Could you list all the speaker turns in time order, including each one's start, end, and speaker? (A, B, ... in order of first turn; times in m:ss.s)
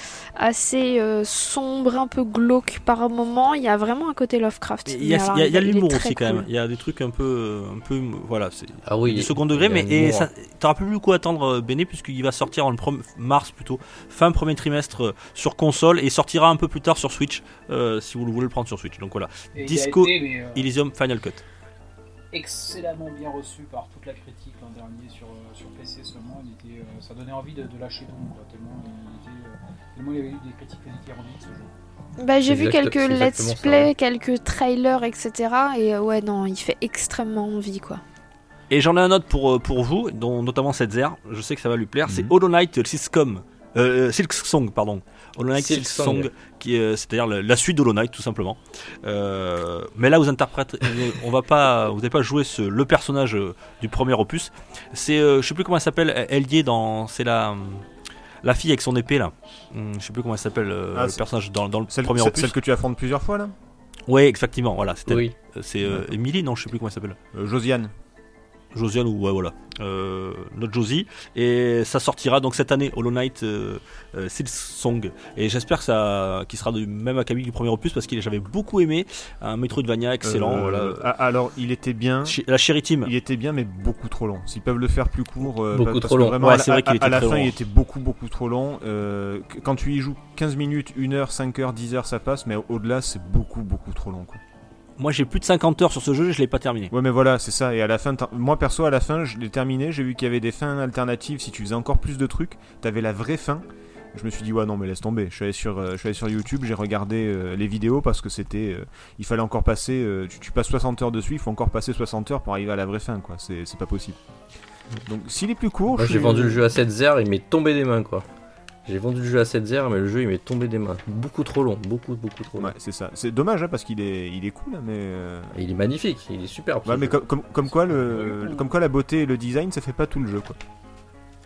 0:00.4-0:06.4 A
0:04.9-0:21.4 B
0:08.8-0:10.3 C
0:19.5-0:20.7 D
0:22.3-0:31.7 D
0:32.2-0:38.0 A
0:32.4-0:33.9 C
0:38.7-0:57.8 B
0:45.5-0:46.3 C
0:58.4-1:02.5 B
1:00.9-1:01.2 E
1:01.9-1:03.5 E
1:04.1-1:07.2 B
1:05.1-1:05.3 C
1:05.8-1:06.1 E
1:07.3-1:07.9 E
1:08.7-1:21.0 B
1:20.2-1:22.4 E
1:22.2-1:23.1 B
1:23.0-1:34.4 E
1:25.7-1:26.4 C
1:26.4-1:27.5 B
1:35.0-1:36.9 B
1:36.9-1:54.2 E
1:55.0-1:56.6 E
1:55.9-1:58.2 C
1:58.8-2:02.7 C
2:02.6-2:05.5 E
2:05.5-2:07.2 C
2:06.8-2:10.6 E
2:07.8-2:08.7 D